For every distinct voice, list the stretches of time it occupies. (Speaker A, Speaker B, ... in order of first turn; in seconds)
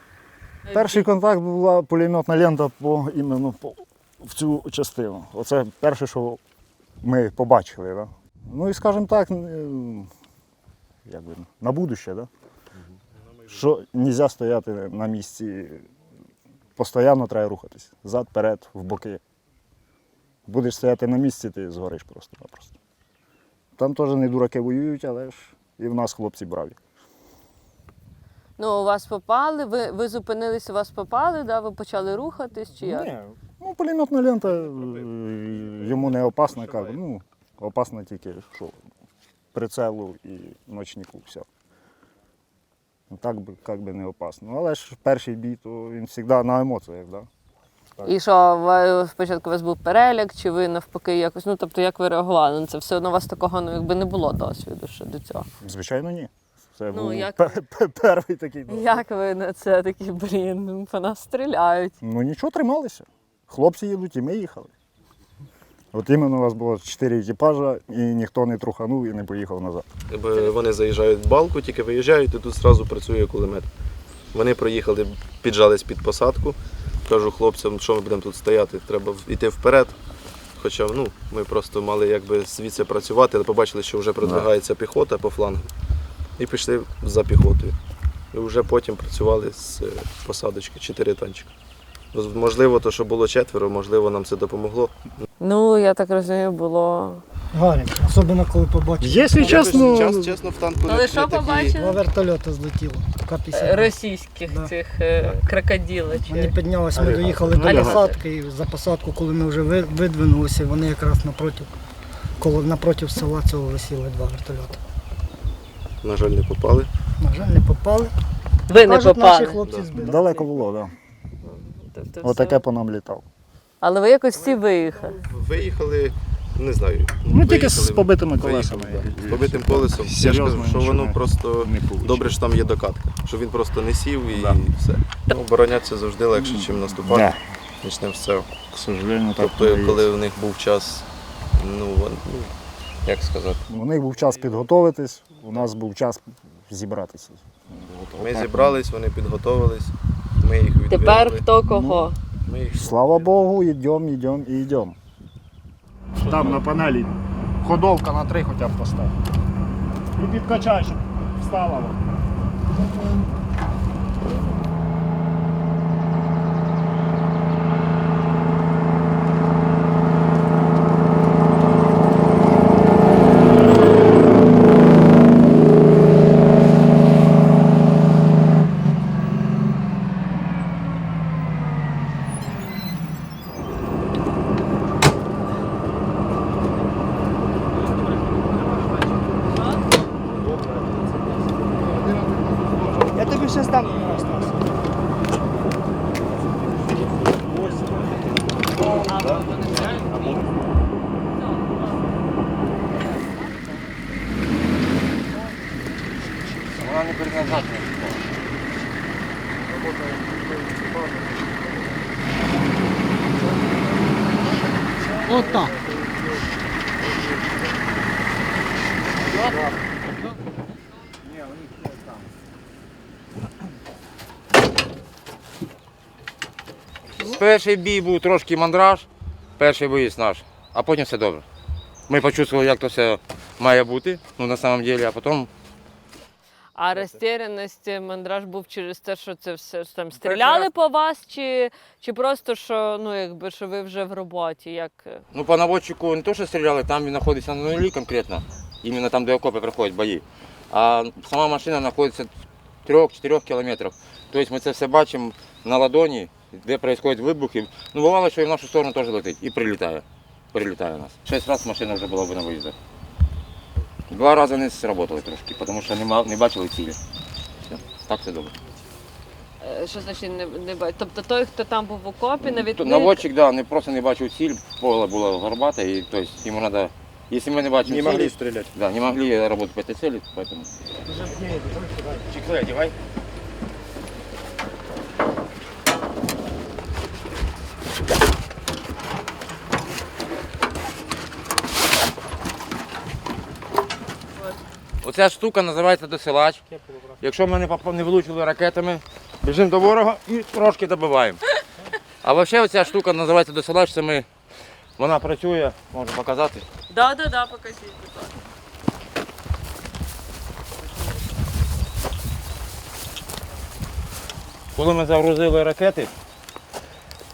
Speaker A: 0.7-1.0, 28.6-33.1, 48.0-55.5, 56.9-57.6, 58.7-62.0, 95.4-97.2, 100.9-102.0, 103.5-106.5, 118.7-119.6, 121.4-122.6, 123.8-125.2, 150.9-152.2, 188.8-189.8, 199.0-200.4, 201.3-202.0, 236.8-245.2, 269.6-273.2, 306.9-308.3
Speaker B: 0.7-6.4, 7.0-10.1, 11.1-12.3, 13.5-15.9, 16.8-19.2, 20.5-22.8, 23.8-26.8, 32.8-38.8, 39.5-41.5, 43.1-47.3, 55.6-59.0, 62.0-64.7, 65.9-69.9, 99.0-100.4, 107.0-108.0, 119.9-120.9, 122.2-123.2, 127.3-132.5, 134.3-134.6, 136.3-137.4, 138.7-140.1, 143.7-148.9, 151.6-152.1, 152.7-155.0, 156.2-159.1, 160.2-162.0, 277.9-278.6
Speaker C: 70.1-73.7, 74.3-80.0, 80.6-85.7, 86.4-87.8, 88.3-91.5, 92.1-95.0, 99.3-101.8, 116.0-116.9, 119.5-119.9, 125.1-138.7, 139.4-142.5, 143.1-143.7, 148.2-151.5, 152.5-153.3, 156.2-156.7
Speaker D: 97.5-100.1, 101.7-104.7, 106.1-111.7, 112.4-114.8, 117.2-118.1, 118.7-120.5, 215.3-215.7
Speaker E: 206.8-208.1, 227.2-229.1, 229.6-231.4, 232.1-235.5, 240.2-240.7, 245.3-252.3, 252.8-262.8, 264.1-267.0, 267.7-268.5, 272.4-280.7, 282.3-282.9, 295.0-296.6, 297.2-301.4, 302.2-304.3, 305.0-306.7, 314.8-316.1